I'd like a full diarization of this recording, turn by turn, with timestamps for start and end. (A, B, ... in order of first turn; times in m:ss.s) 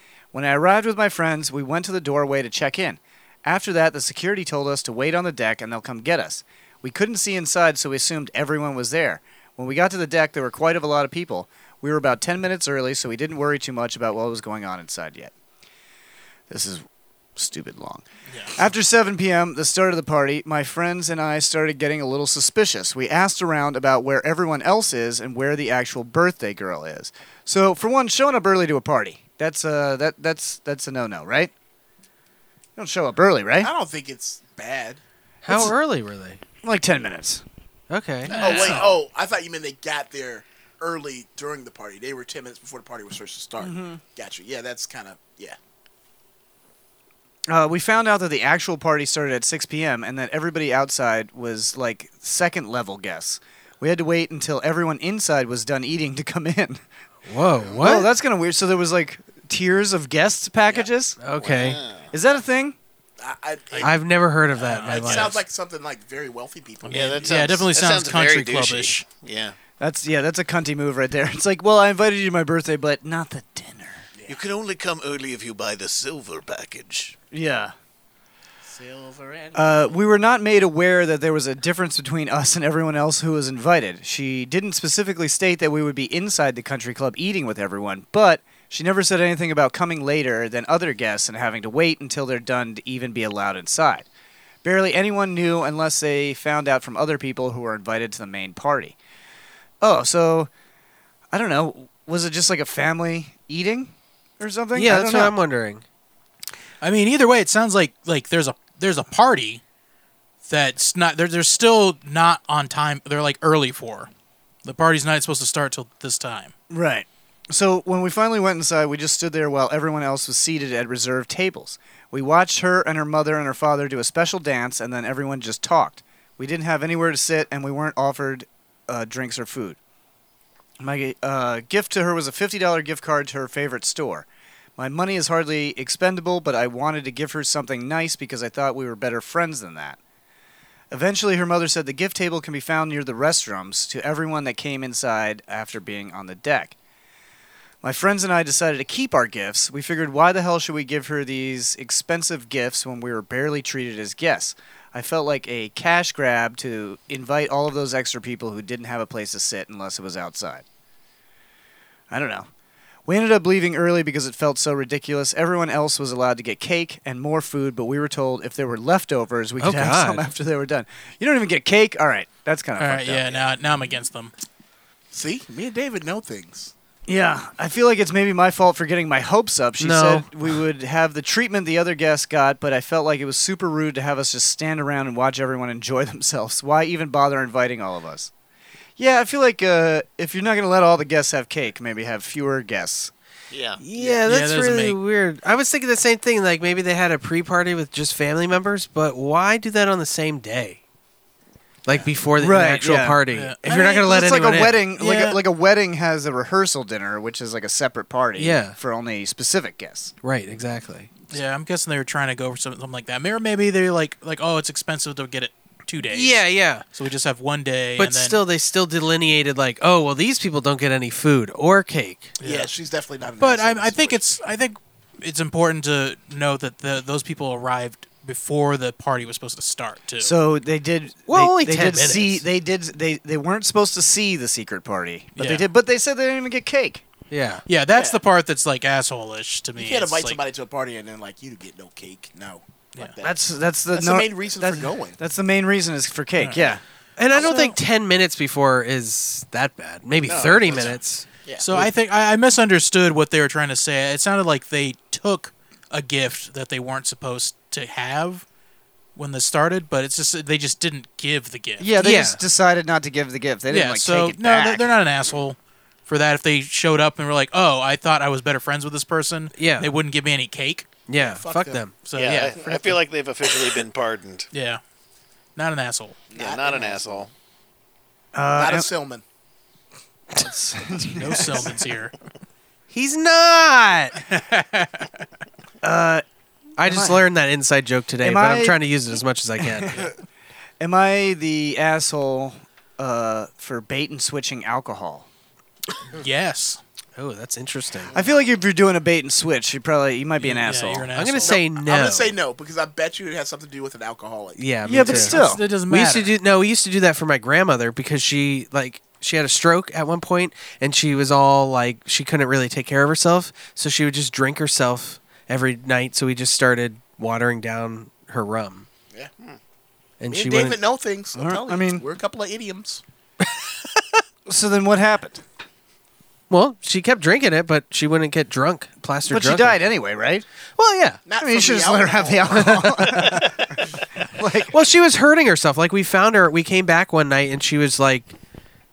0:00.3-0:15.3 A
0:16.5-0:16.8 A
0:17.4-0:18.0 A
0:18.3-0:18.6 B
0:18.5-0:31.5 A
0:32.8-0:33.7 A
0:33.6-0:35.0 C
0:35.4-0:36.4 D
0:35.5-0:35.7 A
0:36.6-0:37.4 A
0:37.9-0:38.4 D
0:38.3-0:39.0 E
0:38.4-0:45.6 C
0:38.4-0:38.9 B
0:43.6-0:44.0 A
0:47.5-0:56.8 A
0:57.3-0:58.1 D
0:57.8-1:01.2 A
1:01.2-1:01.8 D
1:01.4-1:02.1 E
1:02.1-1:02.8 A
1:03.2-1:04.0 C
1:03.8-1:05.4 D
1:04.6-1:05.3 B
1:04.8-1:07.7 C
1:06.8-1:09.0 B
1:06.9-1:09.6 E
1:09.8-1:14.0 A
1:14.3-1:17.1 E
1:17.3-1:17.7 A
1:18.7-1:20.0 C
1:19.5-1:34.0 A
1:34.6-1:39.0 A
1:39.8-1:40.5 A
1:41.3-1:45.4 A
1:44.7-1:45.8 D
1:46.8-1:49.6 B
1:50.4-1:54.1 B
1:54.6-1:56.5 B
1:56.7-2:09.8 A
2:10.8-2:14.2 A
2:14.8-2:20.0 A
2:20.9-2:26.8 A
2:27.8-2:40.6 A
2:42.1-2:42.5 A
2:43.0-2:53.5 A
2:49.6-2:50.3 D
2:52.8-2:54.3 B
2:55.1-2:56.7 C
2:57.1-3:08.3 A
2:59.8-3:00.3 D
3:09.0-3:13.1 A
3:13.5-3:13.8 E
3:13.8-3:20.8 D
3:14.2-3:15.0 B
3:21.8-3:24.8 D
3:22.4-3:30.1 A
3:23.3-3:23.6 B
3:25.0-3:25.4 B
3:28.4-3:28.8 D
3:30.2-3:31.1 D
3:31.3-3:38.4 B
3:36.1-3:36.8 D
3:38.0-3:42.3 D
3:42.4-3:42.7 B
3:42.4-3:44.4 C
3:43.4-3:50.3 B
3:50.2-3:57.0 A
3:51.3-3:52.4 D
3:55.4-3:55.7 B
3:57.3-3:57.6 D
3:57.7-4:00.4 B
3:57.9-3:58.2 C
3:59.8-4:03.4 C
4:03.2-4:06.8 A
4:03.9-4:05.2 C
4:06.4-4:06.7 B
4:07.2-4:11.2 D
4:07.3-4:07.8 B
4:10.2-4:11.9 C
4:11.6-4:18.4 B
4:19.1-4:21.9 B
4:21.8-4:24.9 A
4:22.0-4:22.4 D
4:23.7-4:30.9 B
4:29.5-4:29.9 D
4:31.1-4:31.9 D
4:31.1-4:31.8 C
4:32.0-4:33.0 B
4:32.1-4:34.5 E
4:34.5-4:34.8 B
4:35.6-4:36.2 B
4:36.3-4:37.3 C
4:36.3-4:37.3 E
4:38.3-4:38.9 A
4:38.6-4:39.2 C
4:40.3-4:41.7 A
4:41.2-4:42.1 B
4:42.9-4:44.2 D
4:44.2-4:45.1 B
4:45.8-4:46.2 A
4:46.8-4:47.2 A
4:46.8-4:50.1 D
4:48.2-4:48.8 A
4:49.8-4:50.1 A
4:50.8-4:55.3 A
4:56.1-4:56.8 B
4:57.2-4:58.1 D
4:58.1-5:01.1 A
5:00.4-5:01.6 B
5:01.1-5:02.4 D
5:01.4-5:05.4 C
5:04.6-5:18.9 D
5:04.8-5:05.6 A
5:05.2-5:06.3 B
5:20.2-5:20.8 D
5:20.3-5:23.0 C
5:21.3-5:22.0 A
5:24.4-5:25.4 A
5:26.5-5:29.8 D
5:29.3-5:30.4 A
5:30.8-5:31.2 D
5:31.3-5:33.5 C
5:31.4-5:34.7 A
5:34.7-5:38.3 D